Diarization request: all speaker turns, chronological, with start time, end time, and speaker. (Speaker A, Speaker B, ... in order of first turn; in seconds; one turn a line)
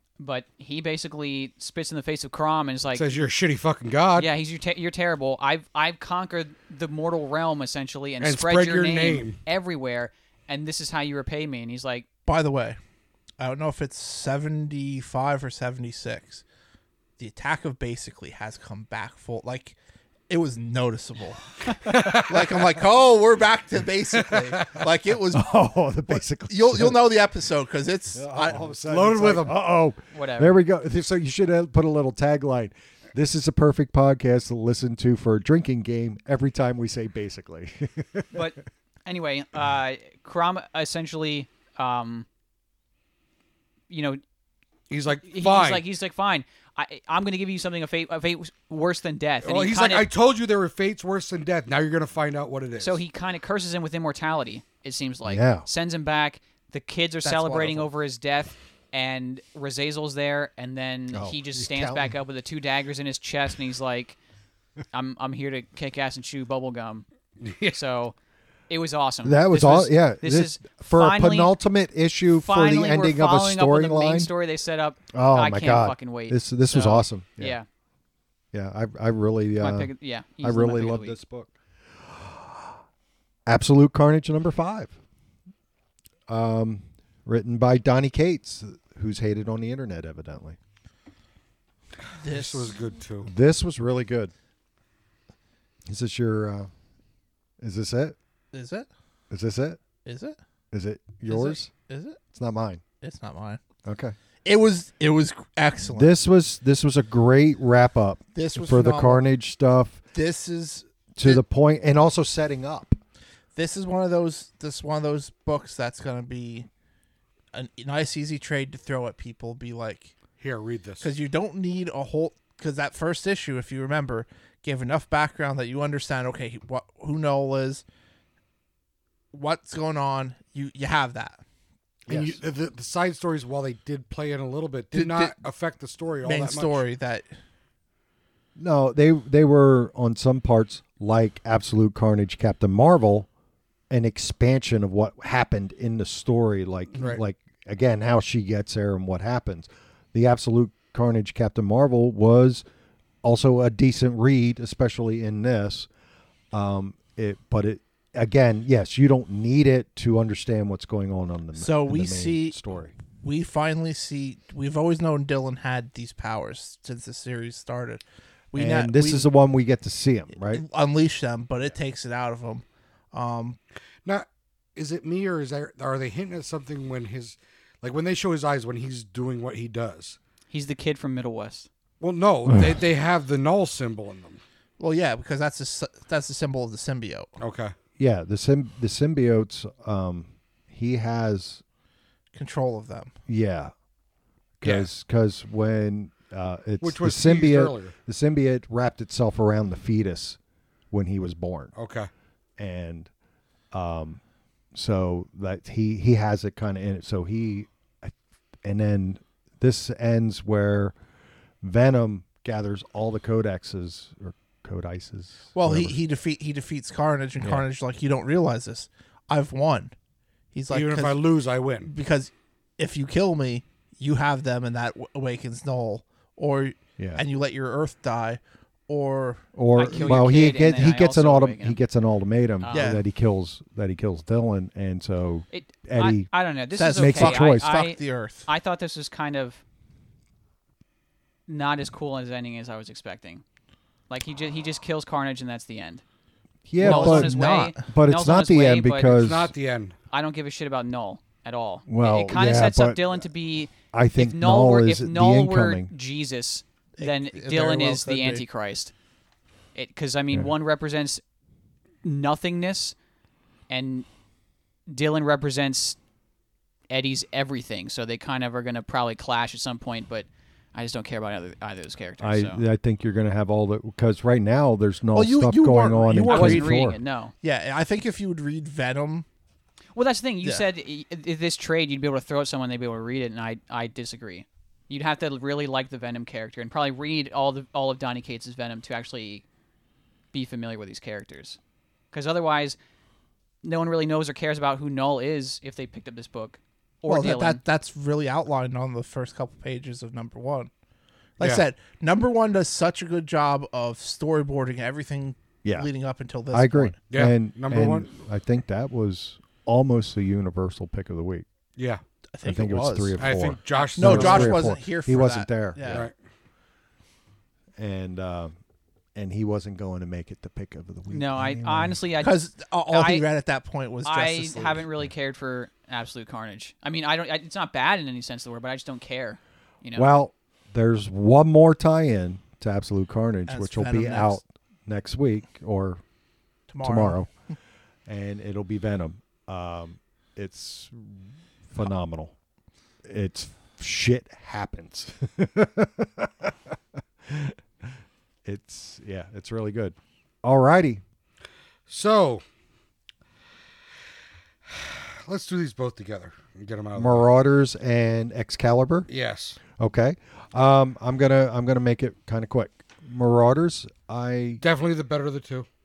Speaker A: 0.2-3.1
Speaker B: 3.0-4.3
Speaker A: 4.2-12.1
Speaker B: 8.2-9.4
Speaker C: 12.3-12.8
Speaker C: 13.4-16.4
Speaker C: 17.2-19.8
Speaker C: 20.3-29.3
Speaker B: 21.9-22.6
Speaker B: 24.3-24.7
Speaker D: 25.3-27.0
Speaker D: 28.1-38.4
Speaker B: 28.4-29.6
Speaker A: 30.1-30.6
Speaker A: 38.3-42.3
Speaker A: 43.9-44.2
Speaker B: 44.9-45.8
Speaker A: 45.2-50.1
Speaker B: 49.4-53.0
Speaker A: 52.8-64.2
Speaker D: 55.3-55.7
Speaker C: 57.2-57.9
Speaker D: 61.1-62.1
Speaker A: 64.9-67.0
Speaker B: 67.4-67.8
Speaker A: 67.7-68.2
Speaker A: 68.7-71.6
Speaker D: 69.2-74.3
Speaker A: 72.3-77.7
Speaker D: 75.1-77.6
Speaker D: 78.5-79.9
Speaker A: 79.6-81.2
Speaker D: 80.4-82.7
Speaker D: 83.5-85.0
Speaker D: 86.3-90.6
Speaker C: 92.2-92.8
Speaker B: 92.3-93.3
Speaker D: 93.2-94.3
Speaker D: 95.9-96.7
Speaker D: 97.6-98.2
Speaker C: 98.5-98.9
Speaker D: 99.3-99.8
Speaker C: 100.0-100.4
Speaker D: 100.7-101.7
Speaker C: 101.3-102.2
Speaker D: 102.3-102.8
Speaker C: 103.0-103.6
Speaker D: 103.9-104.2
Speaker C: 104.5-106.1
Speaker D: 105.9-110.0
Speaker C: 108.3-109.2
Speaker C: 110.1-111.4
Speaker D: 111.2-113.0
Speaker C: 113.5-116.7
Speaker C: 117.5-120.1
Speaker B: 120.4-121.1
Speaker C: 121.0-127.8
Speaker C: 129.3-131.4
Speaker D: 132.1-132.4
Speaker B: 132.1-136.8
Speaker C: 134.9-135.3
Speaker C: 136.2-137.3
Speaker D: 138.6-143.3
Speaker D: 143.9-152.7
Speaker D: 153.2-155.9
Speaker D: 156.5-162.9
Speaker C: 161.6-162.6
Speaker C: 163.2-169.3
Speaker D: 168.6-170.6
Speaker C: 170.5-173.6
Speaker B: 174.1-180.2
Speaker A: 180.5-181.7
Speaker B: 182.0-184.4
Speaker C: 184.8-187.3
Speaker B: 187.4-187.7
Speaker D: 188.0-191.6
Speaker C: 192.3-193.1
Speaker D: 193.3-193.7
Speaker D: 194.6-200.4
Speaker B: 194.6-194.9
Speaker B: 196.8-197.9
Speaker D: 200.9-201.7
Speaker B: 201.8-202.1
Speaker D: 202.6-203.1
Speaker D: 203.7-204.2
Speaker D: 204.7-211.0
Speaker D: 211.6-216.0
Speaker C: 215.5-219.9
Speaker C: 220.5-221.2
Speaker B: 220.7-221.9
Speaker C: 221.8-230.3
Speaker D: 229.6-236.3
Speaker A: 229.8-231.8
Speaker A: 232.6-233.0
Speaker C: 232.7-233.0
Speaker A: 235.5-239.6
Speaker C: 236.8-238.5
Speaker D: 237.0-237.7
Speaker A: 241.5-243.4
Speaker A: 244.1-246.0
Speaker D: 246.7-249.5
Speaker C: 246.8-247.9
Speaker A: 246.8-249.1
Speaker B: 249.1-249.9
Speaker A: 250.1-258.9
Speaker D: 251.9-253.0
Speaker D: 253.9-255.9
Speaker C: 257.0-258.4
Speaker A: 259.8-261.2
Speaker A: 262.0-262.9
Speaker A: 263.7-264.1
Speaker A: 264.9-266.0
Speaker A: 266.9-272.6
Speaker D: 272.2-277.0
Speaker C: 275.1-276.8
Speaker A: 276.3-277.3
Speaker C: 277.4-279.3
Speaker A: 279.9-289.4
Speaker A: 290.3-291.6
Speaker A: 292.1-292.8
Speaker A: 293.6-297.6
Speaker C: 297.1-300.7
Speaker C: 301.4-307.0
Speaker D: 306.5-311.4
Speaker B: 307.1-308.1
Speaker B: 311.8-312.0
Speaker C: 312.3-313.2
Speaker D: 312.4-316.1
Speaker B: 313.2-314.7
Speaker C: 313.8-316.1
Speaker B: 315.9-316.1
Speaker D: 317.8-318.6
Speaker D: 319.1-322.0
Speaker A: 321.1-323.2
Speaker C: 322.2-324.9
Speaker A: 324.1-330.1
Speaker D: 329.9-336.0
Speaker C: 333.5-334.4
Speaker C: 336.7-337.2
Speaker D: 336.8-337.3
Speaker D: 338.1-342.3
Speaker D: 343.0-346.7
Speaker D: 347.3-347.6
Speaker D: 348.4-351.0
Speaker B: 351.9-352.4
Speaker B: 354.6-357.3
Speaker D: 357.0-359.1
Speaker B: 359.1-359.6
Speaker D: 359.7-364.6
Speaker B: 364.6-365.7